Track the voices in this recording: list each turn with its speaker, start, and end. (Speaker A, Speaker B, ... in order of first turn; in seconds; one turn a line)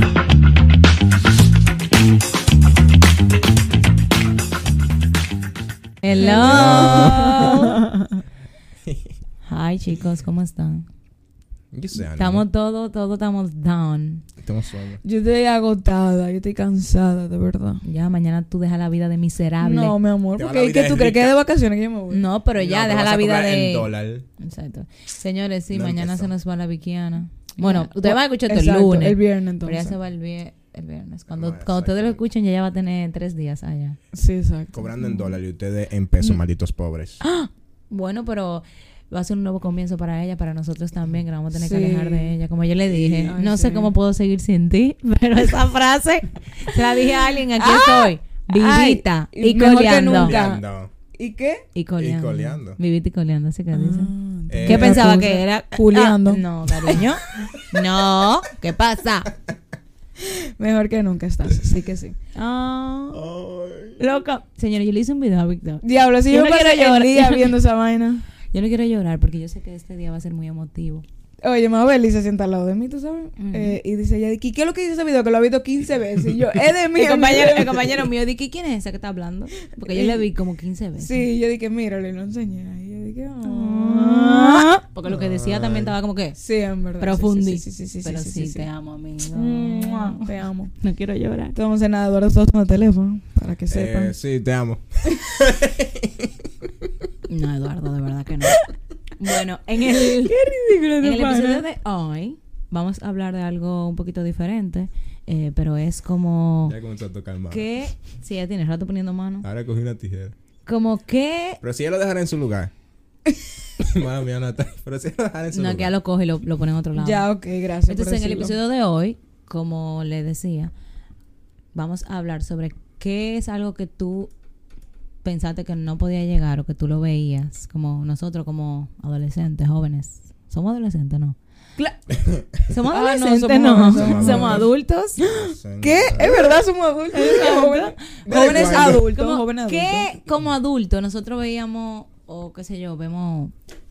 Speaker A: 6.0-7.8
Speaker B: 6.1-7.6
Speaker C: 6.2-8.2
Speaker A: 9.4-10.9
Speaker B: 11.7-12.5
Speaker A: 12.2-14.2
Speaker B: 14.4-15.0
Speaker C: 15.0-17.8
Speaker A: 17.8-20.0
Speaker C: 19.6-22.2
Speaker B: 20.4-21.4
Speaker A: 22.1-34.0
Speaker B: 22.6-24.2
Speaker B: 25.7-26.3
Speaker C: 27.6-30.0
Speaker B: 31.3-32.2
Speaker C: 34.1-35.3
Speaker B: 34.7-37.2
Speaker C: 37.2-37.5
Speaker A: 37.9-50.4
Speaker C: 41.5-42.4
Speaker B: 42.9-43.4
Speaker C: 43.3-43.9
Speaker C: 46.8-50.6
Speaker B: 50.1-50.9
Speaker C: 51.2-51.6
Speaker A: 51.8-54.1
Speaker B: 52.0-52.8
Speaker C: 53.7-57.0
Speaker B: 54.5-55.2
Speaker A: 54.6-59.3
Speaker C: 60.2-62.2
Speaker A: 62.4-63.2
Speaker B: 63.1-64.0
Speaker A: 64.0-67.5
Speaker C: 65.8-68.2
Speaker A: 68.5-71.0
Speaker C: 71.4-77.9
Speaker A: 73.4-73.8
Speaker A: 76.9-81.3
Speaker C: 79.8-80.3
Speaker C: 81.0-84.8
Speaker A: 83.4-86.4
Speaker B: 85.0-86.0
Speaker C: 86.4-88.7
Speaker A: 87.0-91.6
Speaker C: 89.3-90.7
Speaker C: 91.5-94.1
Speaker B: 93.7-96.9
Speaker A: 97.3-98.7
Speaker A: 99.2-100.3
Speaker C: 99.8-101.6
Speaker A: 101.0-106.8
Speaker B: 106.7-107.7
Speaker A: 107.5-109.5
Speaker B: 109.4-110.3
Speaker A: 110.7-111.6
Speaker B: 111.6-112.7
Speaker B: 113.8-115.9
Speaker A: 115.5-117.3
Speaker C: 117.0-118.5
Speaker A: 117.9-120.7
Speaker A: 121.7-124.3
Speaker A: 125.2-131.4
Speaker B: 132.1-132.6
Speaker A: 132.7-135.2
Speaker C: 132.9-140.1
Speaker B: 133.8-134.7
Speaker B: 135.2-136.4
Speaker A: 137.1-143.5
Speaker B: 138.3-139.1